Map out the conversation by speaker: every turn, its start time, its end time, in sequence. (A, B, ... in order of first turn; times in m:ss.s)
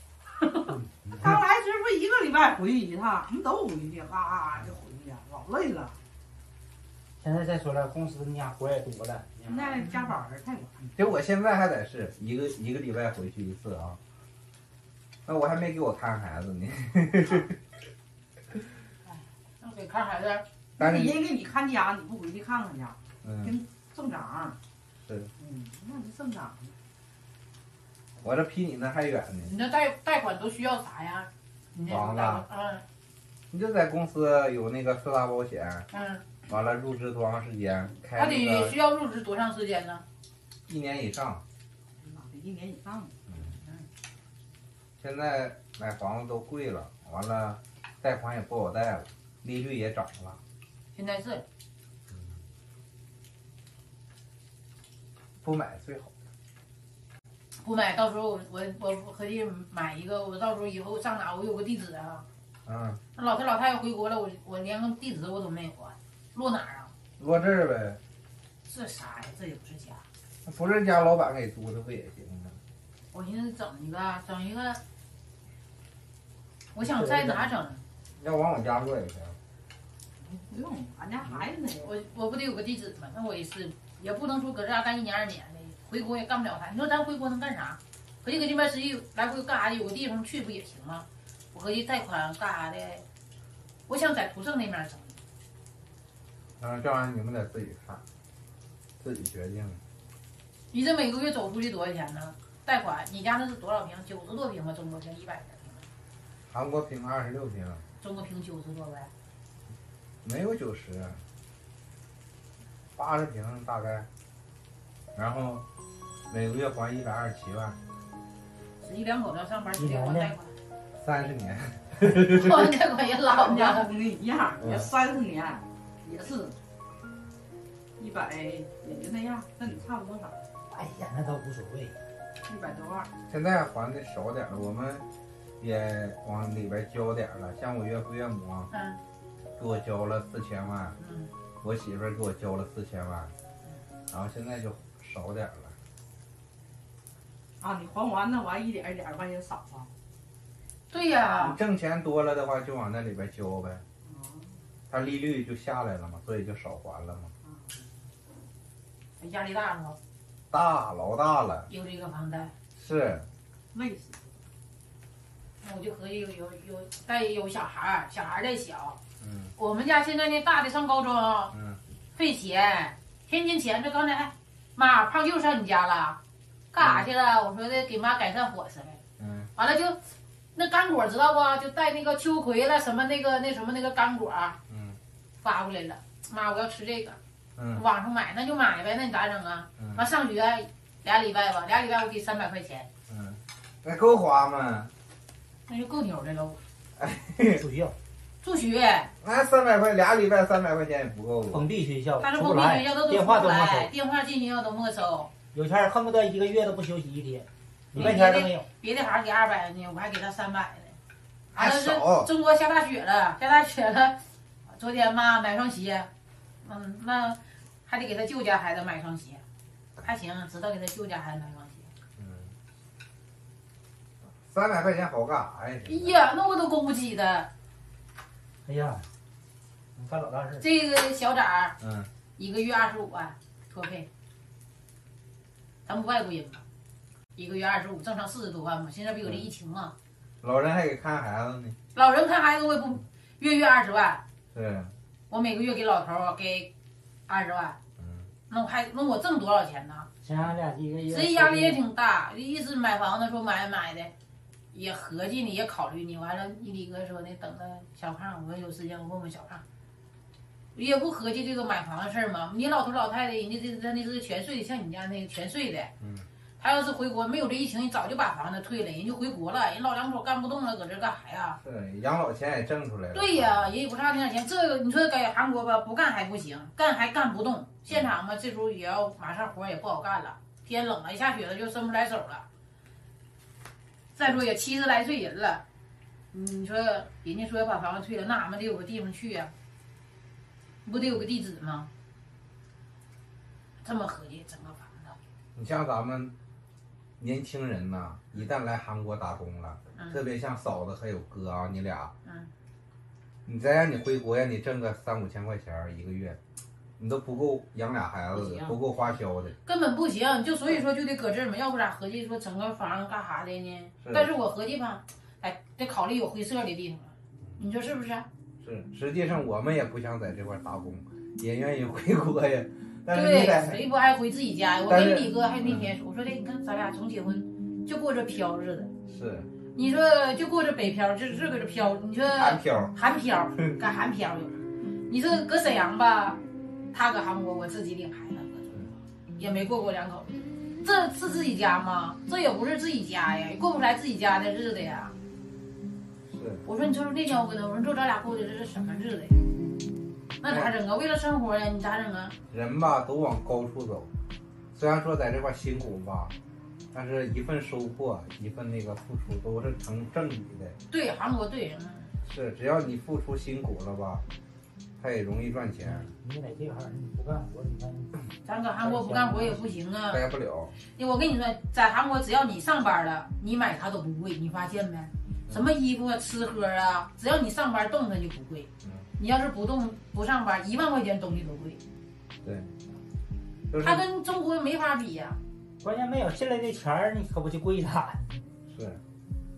0:00.4-0:00.7 A
0:00.7-0:01.4 B
0:01.1-0:06.0 C
0:07.2-0:09.8 B
0:09.5-0:11.0 C
0:11.0-0:14.0 D
0:15.2-0:17.6 D
0:19.1-0:20.4 A
0:20.8-0:21.2 D
0:20.8-0:24.6 C
0:23.2-0:23.6 D
0:25.0-0:25.3 D
0:25.4-0:26.8 C
0:28.2-0:29.5 D
0:29.4-0:32.8 A
0:31.9-0:32.4 D
0:33.5-0:35.9 D
0:35.9-0:36.2 A
0:36.4-0:38.8 D
0:38.2-0:40.0 A
0:40.7-0:41.4 D
0:42.0-0:43.2 C
0:43.4-0:43.8 A
0:45.0-0:50.4 D
0:50.9-0:51.4 A
0:55.4-0:56.1 D
0:57.6-1:02.2 A
1:02.6-1:03.0 D
1:03.1-1:06.9 A
1:07.2-1:08.0 D
1:08.6-1:10.0 A
1:10.4-1:12.6 D
1:13.1-1:14.8 A
1:16.7-1:17.8 A
1:16.8-1:17.4 B
1:18.1-1:19.4 D
1:20.2-1:21.9 C
1:21.8-1:33.0 A
1:33.9-1:35.2 A
1:36.6-1:38.0 D
1:39.0-1:39.8 D
1:40.7-1:45.9 A
1:46.5-1:47.8 D
1:48.0-1:49.1 A
1:50.2-1:51.2 D
1:53.0-1:54.1 D
1:55.1-1:55.6 D
1:56.3-1:57.8 D
1:58.8-2:00.5 A
1:59.7-2:00.3 B
2:01.0-2:02.6 D
2:02.3-2:03.9 A
2:03.3-2:06.4 C
2:04.6-2:04.9 D
2:06.1-2:06.5 A
2:08.0-2:10.5 C
2:10.7-2:12.0 B
2:12.4-2:13.1 C
2:13.3-2:15.0 D
2:15.6-2:18.7 D
2:18.7-2:19.0 A
2:19.6-2:21.0 D
2:21.0-2:21.3 A
2:21.6-2:23.3 D
2:24.1-2:25.7 D
2:27.6-2:29.9 C
2:30.9-2:31.6 A
2:31.4-2:33.8 D
2:34.0-2:34.5 C
2:34.9-2:37.3 D
2:37.4-2:37.9 C
2:39.2-2:40.0 A
2:40.5-2:41.7 D
2:41.7-2:42.5 A
2:42.8-2:43.3 D
2:43.7-2:44.3 C
2:45.6-2:49.0 A
2:49.2-2:49.5 D
2:49.6-2:51.5 A
2:51.5-2:51.8 D
2:52.1-2:56.2 A
2:56.7-2:59.0 A
2:56.8-2:57.1 D
2:59.2-2:59.5 D
2:59.6-3:00.0 A
3:00.5-3:04.6 A
3:04.7-3:05.0 D
3:05.4-3:07.2 A
3:07.6-3:07.8 D
3:07.7-3:12.9 A
3:13.1-3:14.9 D
3:15.7-3:16.6 A
3:17.0-3:17.6 D
3:17.5-3:18.0 B
3:18.4-3:19.1 A
3:19.2-3:21.6 D
3:21.5-3:23.9 B
3:22.2-3:25.3 A
3:25.5-3:28.7 B
3:27.9-3:31.0 A
3:31.5-3:32.3 D
3:31.5-3:36.1 A
3:36.6-3:39.4 A
3:40.0-3:41.9 A
3:42.2-3:42.5 D
3:44.2-3:46.2 D
3:45.8-3:47.5 A
3:48.6-3:49.1 B
3:50.0-3:50.6 B
3:50.6-3:51.8 A
3:51.8-3:52.1 D
3:52.4-3:54.1 A
3:55.8-3:56.6 A
3:57.4-3:59.9 A
4:00.4-4:01.8 D
4:01.9-4:04.2 A
4:04.5-4:04.9 D
4:05.3-4:06.7 A
4:07.3-4:07.8 A
4:08.0-4:08.3 D
4:08.5-4:10.1 A
4:10.2-4:11.8 B
4:11.1-4:14.1 A
4:14.7-4:19.6 A
4:20.7-4:25.9 A
4:26.0-4:26.3 D
4:26.6-4:31.6 A
4:31.6-4:33.7 D
4:33.1-4:42.4 A
4:44.1-4:45.6 A
4:46.3-4:49.5 A
4:50.8-4:51.9 A
4:53.8-4:55.2 A
4:55.6-4:56.3 D
4:57.2-5:02.1 D
5:02.2-5:02.5 A
5:03.4-5:06.4 D
5:07.0-5:09.6 D
5:09.6-5:18.3 A
5:14.0-5:14.3 D
5:18.6-5:23.8 D
5:23.1-5:28.9 A
5:24.9-5:25.9 D
5:29.0-5:29.5 D
5:29.7-5:36.4 A
5:32.3-5:32.9 D
5:36.9-5:45.1 A
5:46.3-5:46.6 D
5:46.6-5:49.5 A
5:50.4-5:52.4 A
5:50.4-5:50.7 D
5:52.5-5:54.1 D
5:54.7-5:56.3 D
5:56.9-6:00.8 D
6:00.9-6:02.1 A
6:02.2-6:04.2 D
6:05.0-6:06.1 D
6:05.8-6:09.4 B
6:08.4-6:10.2 A
6:10.1-6:10.8 D
6:10.9-6:21.8 A
6:18.8-6:19.1 D
6:22.4-6:22.7 D
6:23.7-6:24.0 D
6:23.8-6:25.4 A
6:25.8-6:28.4 B
6:28.7-6:29.0 D